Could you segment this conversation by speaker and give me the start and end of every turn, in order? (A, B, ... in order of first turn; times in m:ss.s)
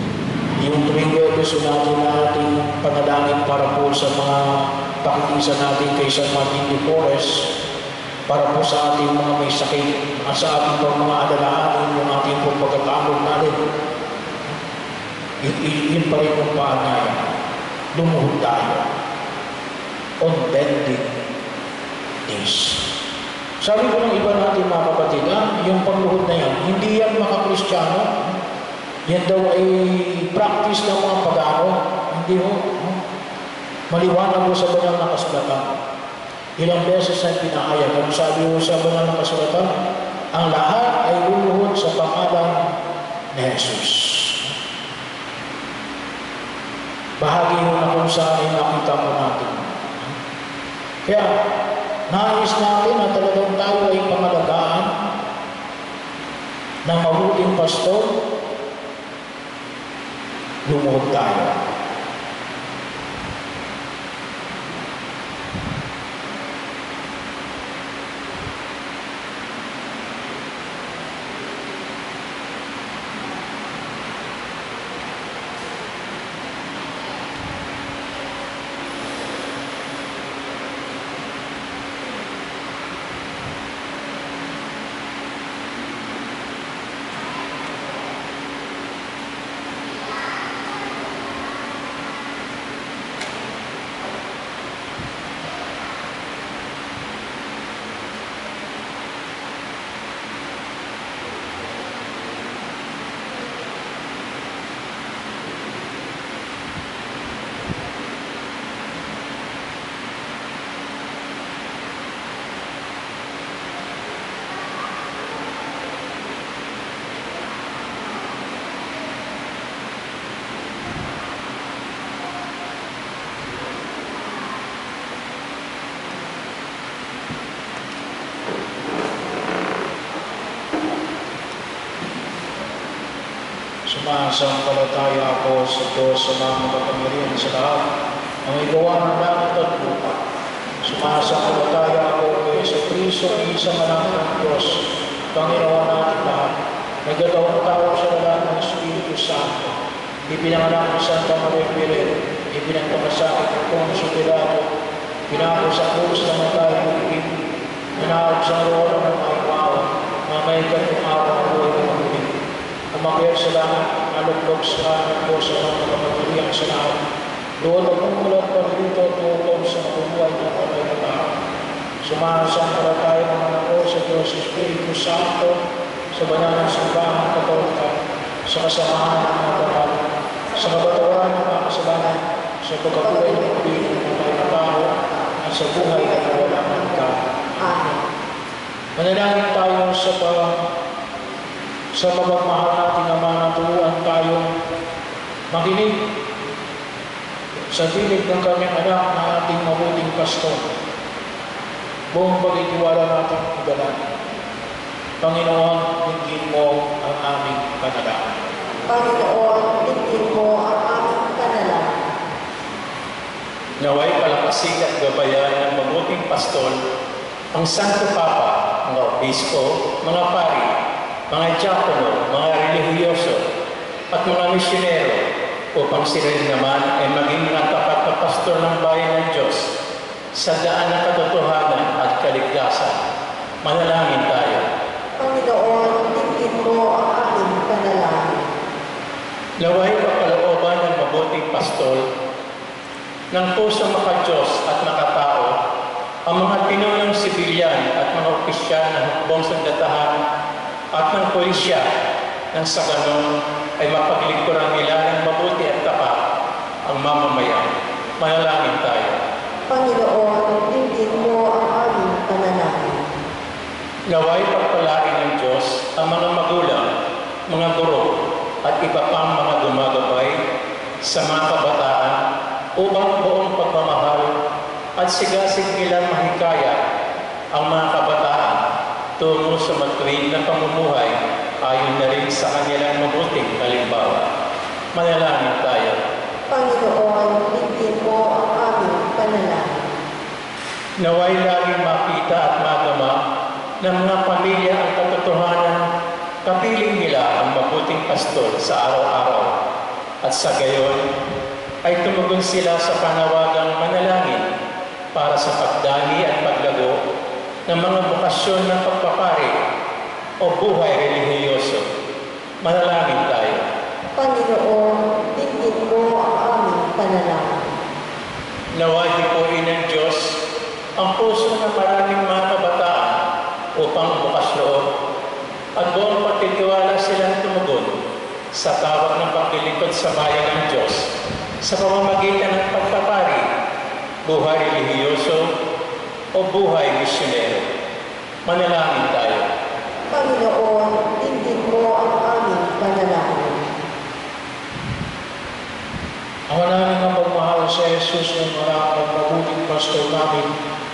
0:00.6-0:07.5 A
0:08.3-0:13.6 A
0:15.4-0:17.4 A
0:17.9-0:18.9 A
0:20.2-0:21.1 A
0:22.2-0:22.9 A
0:23.6-0:28.4 A
0:29.1-0:33.0 A
0:33.9-0:35.8 A
0:36.6-0:39.7 A
0:40.3-0:42.8 A
0:43.3-0:44.5 A
0:47.2-0:50.2 A
0:51.0-0:51.4 A
0:52.1-0:55.1 A
0:56.9-0:58.2 A
1:00.7-1:01.7 A
2:13.9-2:17.9 A
2:18.4-2:20.2 A
2:20.8-2:29.8 A
2:30.3-2:34.7 A
2:35.3-2:37.4 A
2:38.0-2:42.4 A
2:42.9-2:47.0 A
2:47.6-2:51.4 A
2:52.0-2:55.6 A
2:56.1-3:07.9 A
3:05.8-3:06.6 B
3:07.6-3:08.0 B
3:09.0-3:10.7 A
3:11.9-3:14.5 A
3:15.5-3:16.0 A
3:17.7-3:20.7 A
3:22.1-3:24.0 A
3:25.2-3:28.4 A
3:28.9-3:32.0 B
3:33.8-3:36.8 C
3:37.5-3:40.7 C
3:41.3-3:43.4 C
3:44.1-3:45.2 C
3:45.8-3:49.7 C
3:50.3-3:53.0 C
3:53.6-3:54.6 C
3:55.2-3:58.4 B
3:59.6-4:02.0 C
4:03.3-4:05.5 C
4:06.3-4:10.2 C
4:11.0-4:11.8 C
4:12.5-4:13.3 C
4:13.8-4:16.2 C
4:16.9-4:17.7 C
4:18.2-4:19.2 C
4:19.7-4:23.0 B
4:24.1-4:26.8 C
4:27.5-4:28.1 C
4:28.6-4:30.4 C
4:31.0-4:32.2 C
4:32.8-4:34.3 C
4:35.0-4:36.8 C
4:37.5-4:38.6 C
4:39.2-4:44.3 C
4:44.9-4:46.0 C
4:46.5-4:49.8 B
4:51.0-4:53.2 C
4:53.8-4:55.8 C
4:56.4-4:59.5 C
5:00.2-5:01.0 C
5:01.8-5:04.4 C
5:05.1-5:07.0 C
5:07.7-5:09.6 C
5:10.4-5:11.8 C
5:12.6-5:13.6 C
5:14.2-5:17.6 B
5:18.7-5:20.4 C
5:21.0-5:23.2 C
5:23.8-5:24.8 C
5:25.8-5:27.9 C
5:28.5-5:31.0 C
5:31.6-5:33.4 C
5:34.3-5:35.4 C
5:36.3-5:37.7 C
5:38.5-5:39.5 C
5:40.1-5:43.7 B
5:46.5-5:50.5 A